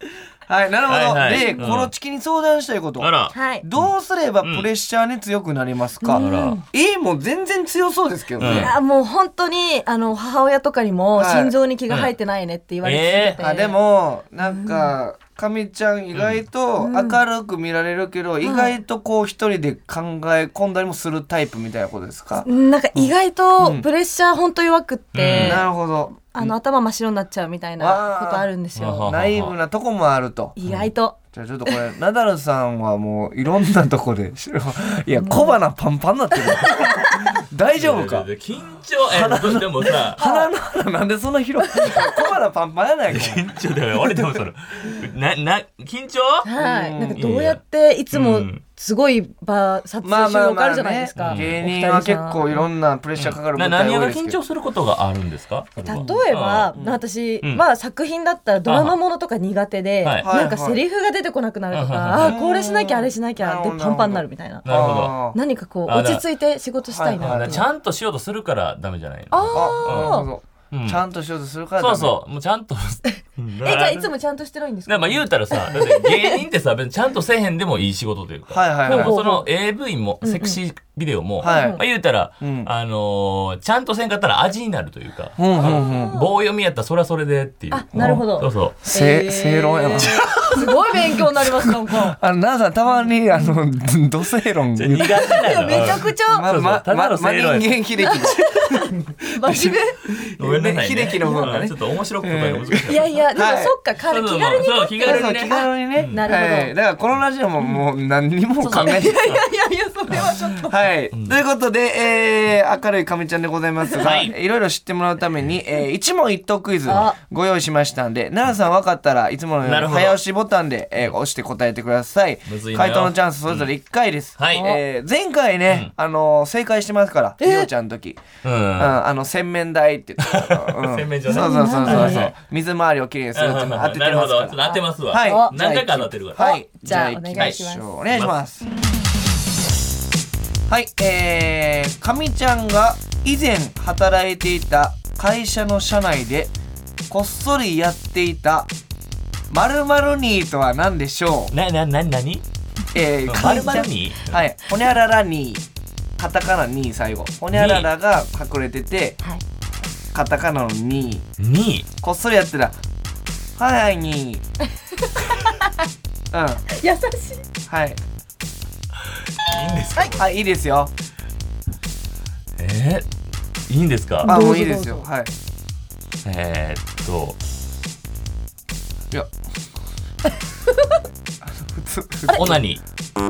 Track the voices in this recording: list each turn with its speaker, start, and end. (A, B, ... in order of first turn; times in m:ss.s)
0:00.5-0:08.8 A
0:00.9-0:01.9 B
0:01.3-0:01.6 C
0:03.0-0:03.9 B
0:03.3-0:03.6 C
0:04.4-0:04.7 B
0:06.0-0:06.6 C
0:06.1-0:06.6 B
0:08.4-0:08.8 B
0:08.5-0:13.8 C
0:11.1-0:11.5 A
0:12.8-0:13.4 B
0:13.4-0:23.9 A
0:14.4-0:15.0 C
0:16.1-0:16.4 B
0:16.8-0:17.2 C
0:18.4-0:18.7 C
0:22.4-0:25.7 C
0:25.1-0:25.6 B
0:25.3-0:26.5 A
0:26.2-0:29.1 C
0:27.8-0:28.5 A
0:28.8-0:29.6 B
0:29.0-0:30.6 A
0:30.6-0:31.2 C
0:31.3-0:38.3 A
0:35.1-0:35.6 C
0:37.8-0:40.2 B
0:39.0-0:43.5 A
0:40.2-0:40.5 C
0:41.8-0:42.1 C
0:43.1-0:46.5 B
0:44.1-0:44.4 A
0:46.4-0:52.6 C
0:46.6-0:47.3 A
0:47.2-0:47.6 B
0:48.1-0:48.6 B
0:50.0-0:54.4 A
0:51.2-0:51.6 B
0:53.2-0:56.7 B
0:55.8-1:04.6 C
0:55.9-0:57.0 A
0:58.6-0:59.0 B
1:00.0-1:00.3 B
1:00.2-1:00.8 A
1:01.7-1:02.4 B
1:02.2-1:05.4 A
1:04.6-1:05.2 B
1:05.2-1:07.6 C
1:05.9-1:06.2 B
1:06.9-1:07.6 A
1:07.2-1:11.0 B
1:09.3-1:10.3 C
1:09.5-1:12.2 A
1:11.8-1:14.1 B
1:13.6-1:16.4 C
1:14.9-1:28.8 B
1:18.5-1:19.2 A
1:18.9-1:19.5 C
1:20.2-1:20.6 C
1:21.4-1:21.8 A
1:21.4-1:21.8 C
1:22.4-1:22.7 A
1:25.4-1:26.1 A
1:25.6-1:26.3 C
1:27.7-1:32.2 C
1:28.0-1:28.2 A
1:28.8-1:30.3 A
1:30.0-1:30.7 B
1:31.6-1:43.7 A
1:34.8-1:37.7 B
1:35.2-1:36.5 C
1:38.0-1:40.0 C
1:40.4-1:43.1 B
1:41.2-1:41.6 C
1:42.8-1:46.7 C
1:44.1-1:46.2 B
1:45.0-1:49.2 A
1:48.6-1:49.4 B
1:48.6-1:50.9 C
1:50.6-2:08.2 A
1:54.0-1:54.3 B
1:56.9-1:57.2 C
1:59.6-2:00.2 B
2:02.5-2:03.7 B
2:04.4-2:04.8 B
2:07.4-2:07.7 C
2:08.4-2:09.0 B
2:08.8-2:18.7 A
2:10.2-2:12.4 B
2:11.3-2:12.3 C
2:13.4-2:16.6 B
2:14.6-2:15.5 C
2:16.4-2:17.8 C
2:20.7-2:26.5 A
2:27.1-2:28.7 A
2:29.5-2:31.5 A
2:31.5-2:32.4 B
2:32.9-2:35.6 A
2:33.2-2:34.4 B
2:36.2-2:39.2 A
2:37.5-2:37.9 B
2:40.1-2:41.2 A
2:41.4-2:41.9 B
2:42.0-2:42.8 A
2:43.6-2:44.4 A
2:45.0-2:45.8 C
2:46.3-2:46.6 A
2:46.7-2:47.4 C
2:47.7-2:48.0 A
2:49.4-2:50.3 B
2:50.1-2:50.9 A
2:52.6-2:53.1 B
2:53.7-2:54.3 B
2:54.2-2:55.1 C
2:54.2-2:55.3 A
2:56.2-2:57.4 B
3:00.7-3:01.0 C
3:01.4-3:02.6 A
3:02.3-3:02.6 C
3:02.3-3:02.8 B